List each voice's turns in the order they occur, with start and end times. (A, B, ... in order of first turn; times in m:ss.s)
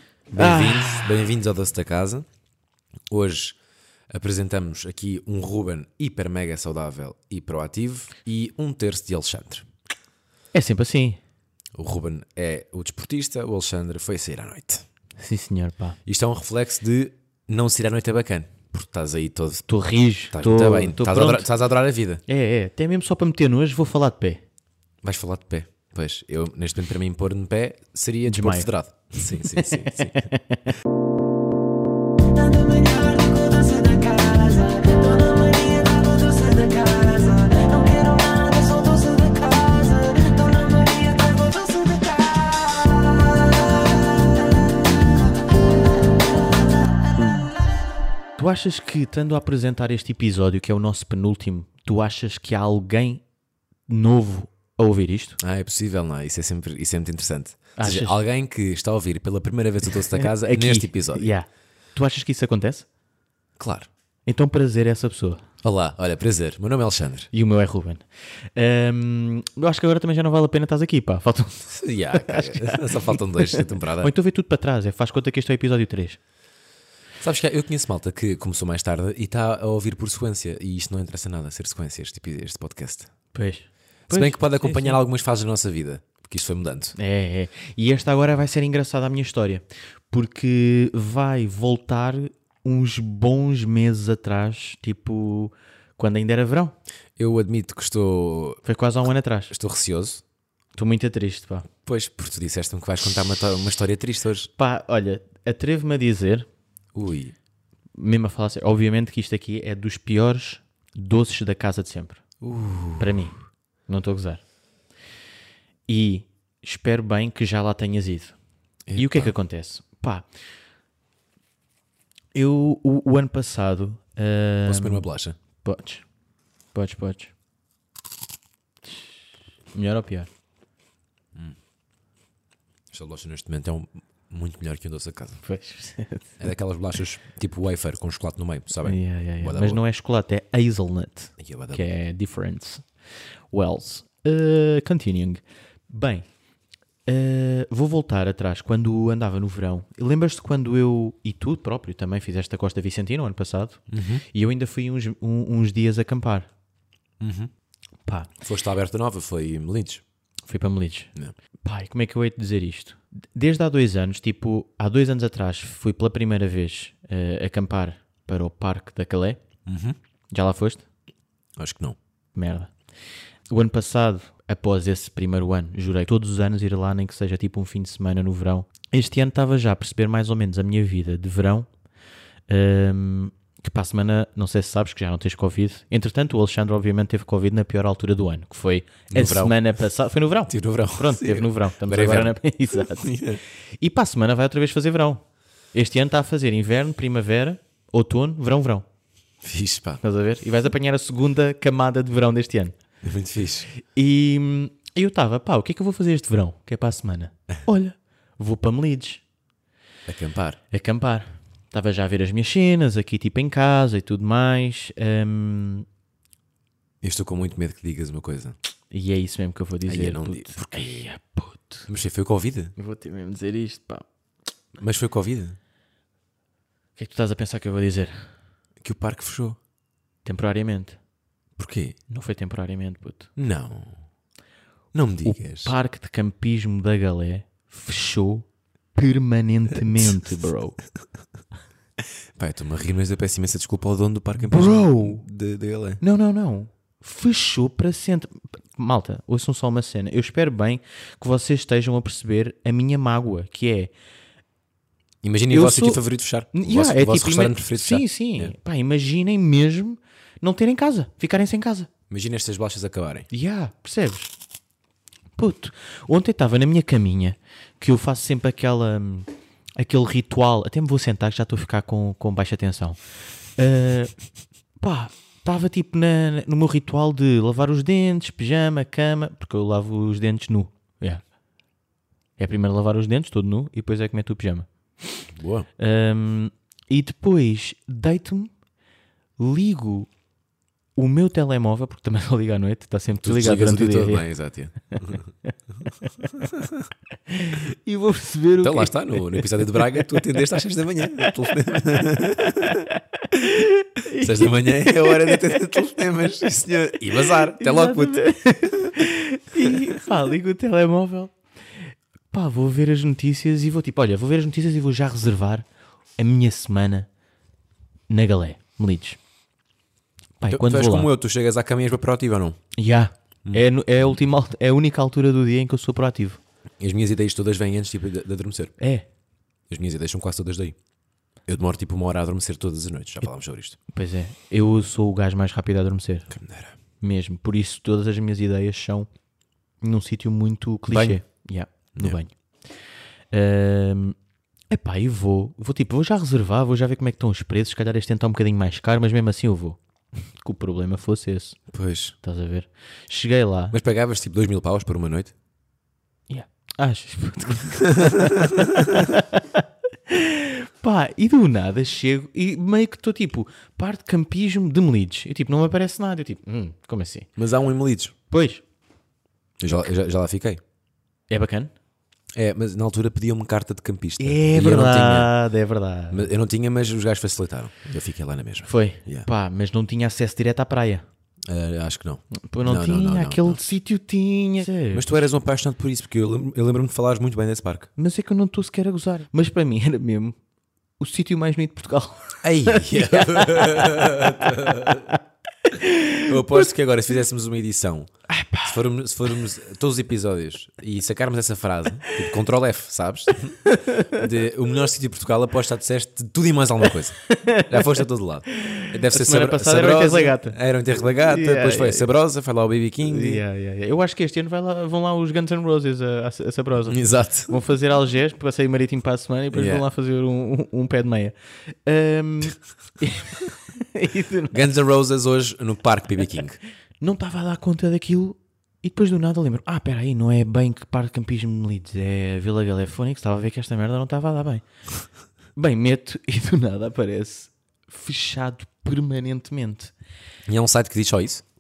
0:00.3-0:01.1 A
0:00.3-0:02.3 B
0:03.1-0:03.6 B
0:04.1-0:09.7 B
0:10.5-0:11.2 A
0:11.8-0:14.8 B
0:15.2-0:16.0 A
0:16.1-0:19.7 B
0:19.7-0:21.5 A
0:20.3-0:22.2 B
0:22.3-0:24.4 A
0:25.0-0:30.3 B
0:28.3-0:28.7 A
0:29.4-0:30.7 A
0:32.3-0:43.6 C
0:48.4-0:53.2 A
0:53.9-0:55.4 A
0:55.4-1:01.3 B
0:57.8-0:58.2 A
1:00.1-1:02.9 A
1:03.6-1:03.9 B
1:04.3-1:05.4 A
1:05.6-1:07.3 B
1:07.3-1:08.0 A
1:08.6-1:16.2 A
1:11.7-1:14.1 B
1:17.2-1:23.1 B
1:23.3-1:25.0 A
1:24.1-1:27.0 B
1:27.0-1:36.8 A
1:37.2-1:38.6 B
1:38.6-1:39.5 A
1:39.5-1:40.2 B
1:40.8-1:41.7 A
1:41.8-1:44.5 B
1:44.6-1:46.5 A
1:46.9-1:47.3 B
1:48.0-1:52.2 A
1:52.4-1:53.2 B
1:53.0-1:54.4 A
1:55.9-1:58.4 A
1:58.9-1:59.3 B
1:59.0-2:00.3 A
2:02.3-2:05.1 A
2:04.6-2:05.4 B
2:05.6-2:06.0 A
2:06.7-2:07.3 A
2:08.9-2:09.2 A
2:09.7-2:10.3 A
2:12.9-2:15.4 B
2:15.4-2:16.4 A
2:16.4-2:19.8 B
2:18.8-2:22.8 A
2:21.4-2:21.9 B
2:23.5-2:26.2 A
2:27.1-2:36.5 A
2:33.9-2:34.2 B
2:37.2-2:37.5 B
2:38.4-2:40.0 B
2:40.5-2:41.1 A
2:41.6-2:49.4 A
2:49.7-2:50.0 B
2:50.3-2:50.8 A
2:51.6-2:52.0 B
2:52.4-2:52.7 A
2:53.5-3:01.7 A
3:02.5-3:13.2 A
3:09.1-3:09.6 B
3:10.5-3:13.4 B
3:13.8-3:15.2 A
3:15.7-3:18.8 A
3:19.4-3:20.0 B
3:20.0-3:22.8 A
3:23.0-3:23.7 B
3:23.7-3:29.2 A
3:30.1-3:30.6 B
3:30.7-3:35.9 A
3:37.0-3:38.6 B
3:38.9-3:41.9 A
3:39.9-3:41.1 B
3:41.9-3:42.7 B
3:42.8-3:44.1 A
3:44.8-3:45.6 B
3:47.0-3:48.3 A
3:48.8-3:49.6 B
3:50.2-3:51.0 A
3:51.6-3:52.0 B
3:52.1-3:53.3 A
3:53.4-3:54.0 B
3:54.9-3:55.8 B
3:55.2-4:00.8 A
4:02.4-4:06.0 B
4:04.5-4:05.2 A
4:06.0-4:13.9 A
4:15.2-4:18.5 B
4:15.5-4:16.0 A
4:16.5-4:21.9 A
4:22.1-4:23.3 B
4:23.3-4:24.3 A
4:25.4-4:33.0 A
4:33.6-4:34.1 A
4:34.8-4:41.2 A
4:42.4-4:48.5 A
4:45.3-4:45.7 B
4:49.4-4:50.1 A
4:51.0-4:54.3 A
4:53.2-4:55.3 B
4:56.4-4:56.9 B
4:57.3-5:00.2 A
4:58.6-5:02.9 B
5:02.6-5:05.6 A
5:04.2-5:08.2 B
5:07.6-5:11.4 A
5:12.3-5:15.7 A
5:16.2-5:17.1 A
5:18.1-5:19.2 A
5:20.4-5:21.1 A
5:20.5-5:22.6 B
5:22.8-5:26.4 A
5:26.8-5:28.8 B
5:28.8-5:29.1 A
5:29.7-5:30.8 B
5:31.5-5:33.8 B
5:33.9-5:36.3 A
5:36.3-5:36.8 B
5:37.0-5:39.1 A
5:39.8-5:42.4 A
5:40.9-5:41.2 B
5:43.3-5:44.2 A
5:44.7-5:49.8 A
5:50.4-5:51.6 A
5:51.7-5:52.2 B
5:52.2-5:53.8 A
5:53.7-5:55.3 B
5:56.3-6:07.3 A
5:58.0-5:59.0 B
6:07.4-6:08.1 B
6:08.3-6:08.6 A
6:09.6-6:10.6 B
6:11.3-6:11.7 A
6:12.4-6:15.3 B
6:14.2-6:16.3 A
6:16.1-6:19.3 B
6:18.6-6:21.0 A
6:21.5-6:23.8 B
6:22.4-6:25.3 A
6:24.9-6:27.9 B
6:28.0-6:30.4 A
6:31.0-6:36.6 A
6:32.4-6:35.2 B
6:36.2-6:53.4 B
6:38.3-6:38.7 A
6:43.6-6:44.2 A
6:47.2-6:50.6 A
6:51.2-6:52.1 A
6:53.0-7:04.6 A
6:56.9-6:57.5 B
6:59.5-6:59.8 B
7:04.5-7:06.6 B
7:07.0-7:14.6 A
7:15.6-7:19.9 A
7:20.5-7:21.4 B